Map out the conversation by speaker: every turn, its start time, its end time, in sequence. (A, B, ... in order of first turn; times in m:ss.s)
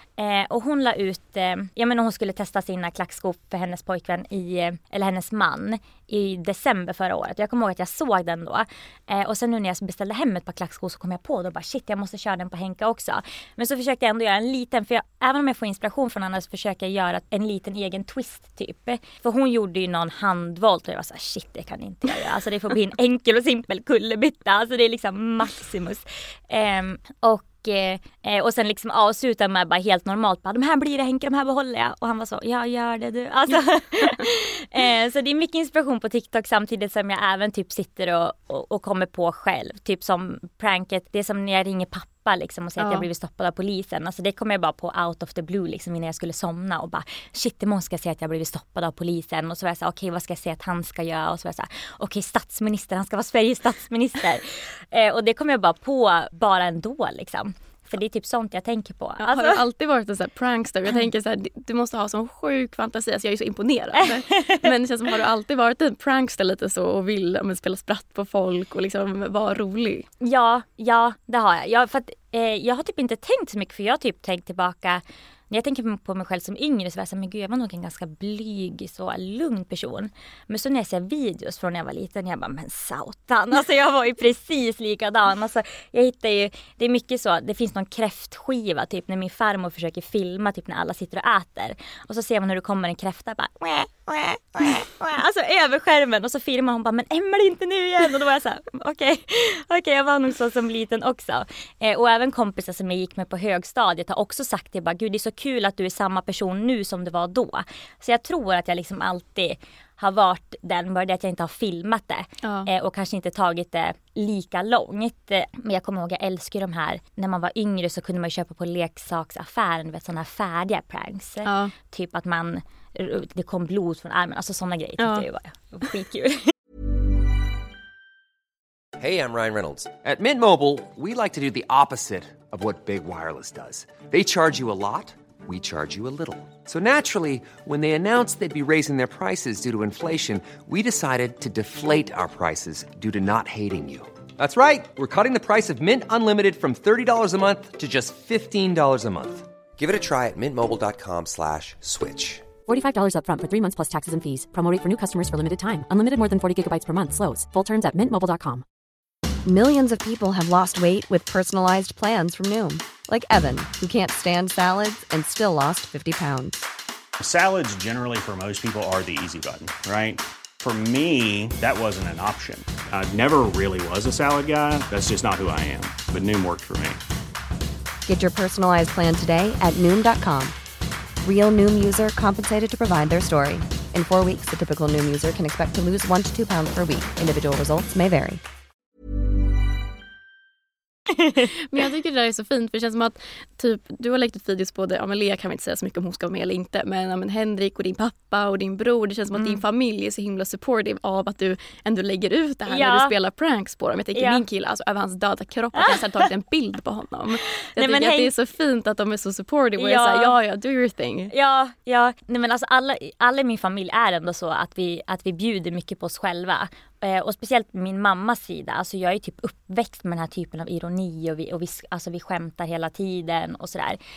0:00.2-0:59.6 A
0:42.8-0:43.1 B
0:59.2-1:10.0 B
1:10.2-2:06.5 A
1:52.4-1:52.7 B
2:01.4-2:01.7 B
2:05.0-2:05.2 B
2:09.0-2:32.5 C
2:32.6-2:38.6 D
2:39.4-2:46.6 E
2:47.2-2:57.0 F
2:58.0-3:00.5 E
3:01.2-3:08.4 E
3:11.7-3:31.3 B
3:19.4-3:19.6 A
3:22.7-3:23.1 A
3:24.1-3:24.4 A
3:27.8-3:28.3 A
3:29.8-3:30.4 A
3:31.3-3:44.0 A